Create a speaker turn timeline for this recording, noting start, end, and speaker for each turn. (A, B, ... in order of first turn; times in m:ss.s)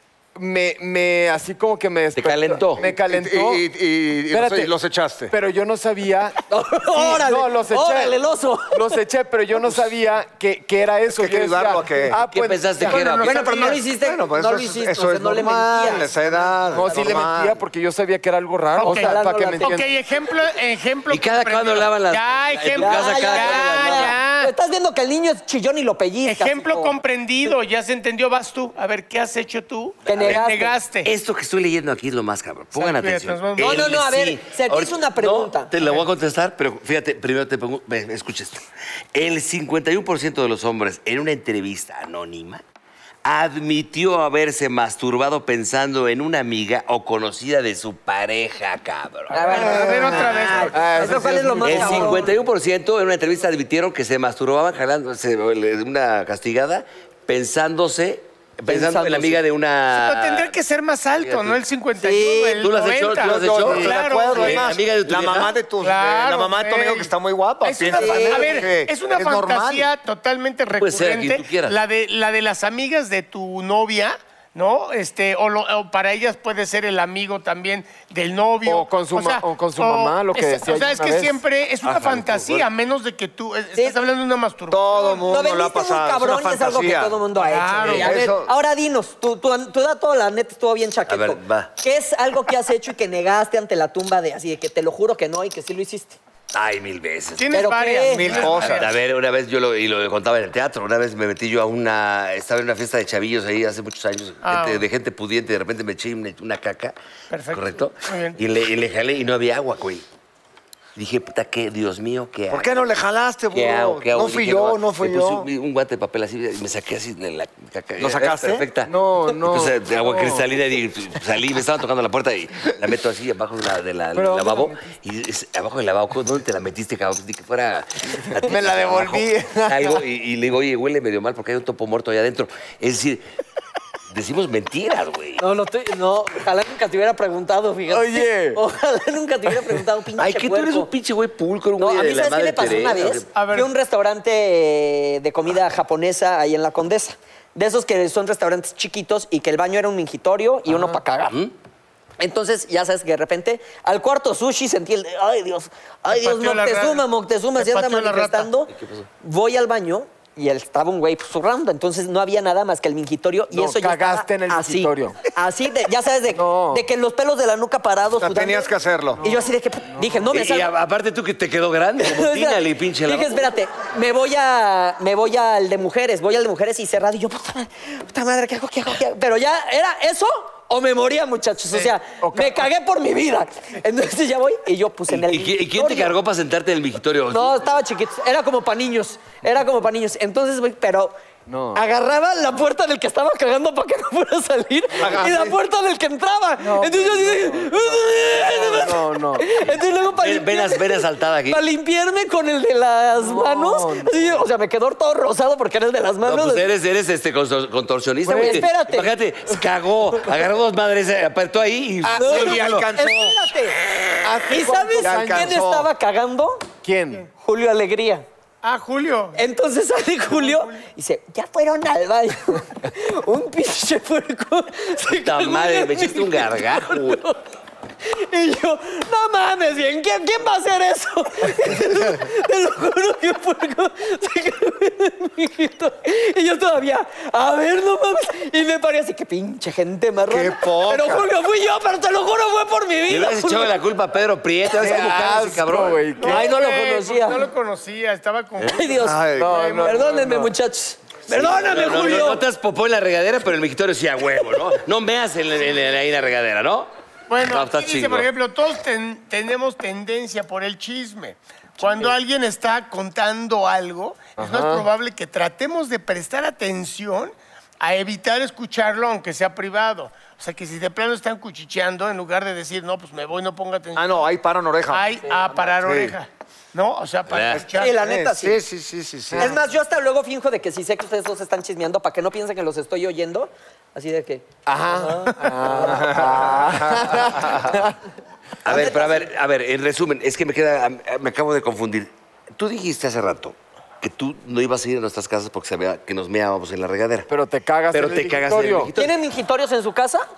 0:00.4-0:03.6 A
0:02.2-0:02.8 B
0:02.8-0:05.3 C
0:04.3-0:04.7 A
0:05.3-0:06.4 A
0:06.5-0:09.0 D
0:06.9-0:08.2 A
0:08.7-0:13.0 A
0:11.2-0:12.2 C
0:12.3-0:13.4 B
0:12.8-0:13.8 E
0:13.2-0:16.1 D
0:14.0-0:17.6 C
0:16.7-0:19.9 A
0:18.8-0:24.5 E
0:18.8-0:19.8 D
0:21.1-0:24.2 B
0:22.8-0:27.0 D
0:26.2-0:31.1 E
0:30.1-0:30.8 D
0:31.0-0:38.6 B
0:32.8-0:34.0 E
0:33.6-0:35.7 D
0:39.2-0:42.6 B
0:43.2-0:49.6 B
0:49.3-0:52.3 D
0:49.5-0:51.1 E
0:49.7-0:52.2 A
0:51.6-1:00.5 B
0:58.7-0:59.4 D
0:59.9-1:04.7 E
1:01.2-1:01.6 B
1:02.0-1:02.6 D
1:02.6-1:05.6 B
1:03.2-1:09.9 C
1:05.8-1:25.3 E
1:07.9-1:08.7 D
1:10.8-1:11.8 B
1:18.6-1:21.4 A
1:21.8-1:22.6 B
1:24.7-1:27.2 C
1:25.3-1:36.2 D
1:27.4-1:28.2 E
1:27.8-1:28.5 C
1:31.1-1:31.7 B
1:36.5-1:37.5 B
1:37.4-1:38.9 E
1:37.5-1:38.7 D
1:38.1-1:38.9 C
1:38.7-1:47.0 B
1:44.4-1:44.9 E
1:47.3-1:48.4 E
1:47.5-1:50.0 B
1:51.0-1:52.8 B
1:52.5-1:55.5 C
1:53.5-2:13.2 B
1:58.0-1:58.6 C
1:58.8-2:00.4 A
2:04.1-2:04.8 A
2:08.4-2:10.0 A
2:14.1-2:15.4 B
2:15.4-2:20.9 D
2:17.9-2:18.6 A
2:20.2-2:23.3 B
2:21.8-2:31.4 D
2:23.4-2:23.7 E
2:32.2-2:38.7 D
2:36.1-2:37.0 E
2:37.6-2:38.5 E
2:38.7-2:39.1 B
2:39.2-2:50.7 D
2:43.5-2:45.2 A
2:46.3-2:46.8 A
2:48.2-2:49.2 C
2:49.2-2:50.3 A
2:50.3-2:53.5 B
2:52.0-3:06.1 D
3:02.2-3:02.7 A
3:05.1-3:07.7 B
3:07.3-3:11.2 D
3:11.5-3:11.8 A
3:11.7-3:26.7 D
3:15.0-3:15.5 A
3:15.0-3:15.5 C
3:16.6-3:19.5 A
3:20.1-3:21.6 B
3:23.2-3:24.5 A
3:26.2-3:32.9 B
3:28.3-3:29.1 D
3:28.3-3:28.7 A
3:32.1-3:32.6 A
3:32.1-3:33.4 C
3:32.2-3:33.8 D
3:33.9-3:34.3 B
3:34.2-3:35.6 A
3:34.5-3:36.6 D
3:35.0-3:35.9 C
3:36.8-3:37.3 A
3:37.4-3:38.2 D
3:38.6-3:39.4 E
3:39.4-3:47.4 D
3:40.3-3:40.8 E
3:45.2-3:47.2 B
3:48.0-4:03.8 D
4:00.3-4:01.3 C
4:03.1-4:06.0 B
4:04.8-4:06.5 A
4:06.2-4:10.0 E
4:06.2-4:07.4 D
4:08.7-4:12.4 D
4:09.0-4:09.6 C
4:09.4-4:10.5 A
4:11.3-4:16.9 B
4:17.3-4:34.3 E
4:17.4-4:18.3 B
4:24.4-4:24.9 A
4:34.0-4:35.1 C
4:34.9-4:38.0 E
4:35.8-4:36.2 C
4:37.3-4:37.6 B
4:37.8-4:38.6 D
4:38.0-4:39.6 C
4:39.3-4:39.6 A
4:39.4-4:46.0 D
4:44.7-4:47.9 A
4:45.8-4:47.1 C
4:48.6-4:57.3 B
4:48.7-4:49.3 D
4:57.3-4:58.9 A
4:57.9-4:59.2 B
4:59.0-5:00.3 D